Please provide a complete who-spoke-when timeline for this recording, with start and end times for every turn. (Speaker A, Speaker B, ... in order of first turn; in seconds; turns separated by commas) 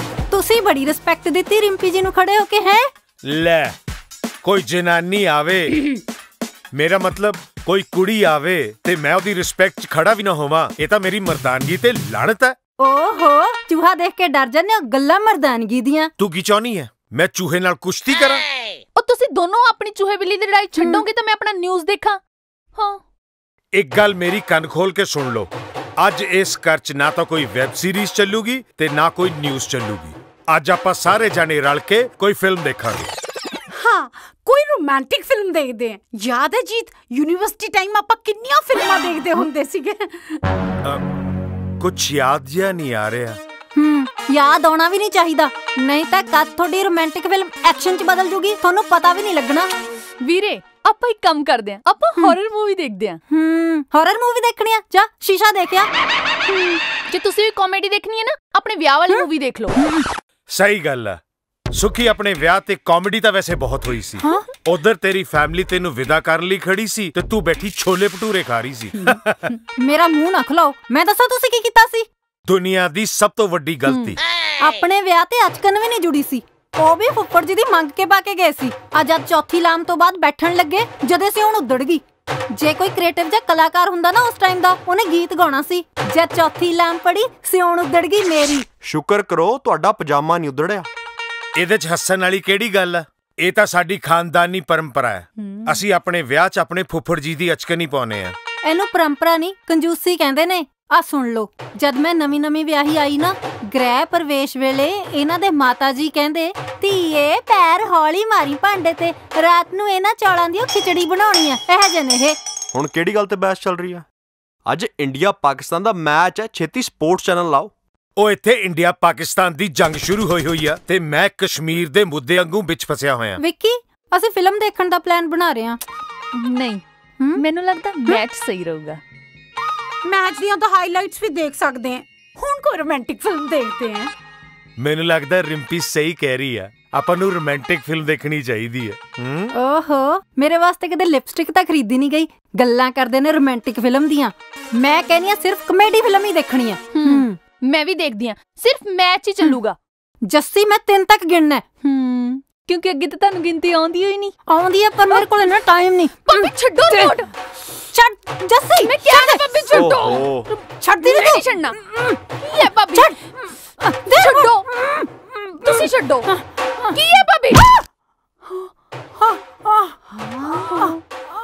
Speaker A: 0.3-2.9, Speaker B: 3.3-3.7, Speaker B: 4.4-5.9, Speaker B: 6.7-12.6, Speaker A: 12.8-16.1, Speaker B: 16.2-18.4, Speaker C: 19.0-22.2, Speaker A: 20.8-21.1, Speaker B: 23.8-33.1, Speaker D: 33.7-40.4, Speaker B: 41.8-43.4, Speaker A: 43.8-49.7, Speaker C: 50.2-53.2, Speaker A: 53.3-55.9, Speaker C: 56.5-59.8, Speaker A: 59.8-60.1, Speaker B: 60.5-61.2, Speaker B: 61.7-69.5, Speaker A: 64.2-64.5, Speaker A: 69.8-72.1, Speaker B: 72.5-74.2, Speaker A: 74.6-82.0, Speaker A: 82.5-88.7, Speaker E: 88.8-90.9, Speaker B: 91.6-98.3, Speaker A: 98.7-112.4, Speaker E: 112.7-114.0, Speaker E: 114.7-117.7, Speaker B: 118.2-123.4, Speaker A: 123.4-125.8, Speaker C: 126.3-126.8, Speaker C: 127.4-129.0, Speaker D: 130.1-134.1, Speaker B: 134.8-139.5, Speaker A: 139.5-147.4, Speaker C: 147.0-149.8, Speaker A: 150.2-152.2, Speaker C: 152.2-154.3, Speaker A: 154.5-157.2, Speaker C: 156.3-157.3, Speaker A: 157.9-159.6, Speaker C: 158.7-161.8, Speaker E: 159.7-160.5, Speaker A: 160.8-162.2, Speaker C: 162.4-163.2, Speaker A: 162.9-165.1, Speaker C: 164.1-164.7, Speaker C: 165.6-166.3, Speaker C: 166.9-167.8, Speaker C: 170.4-171.0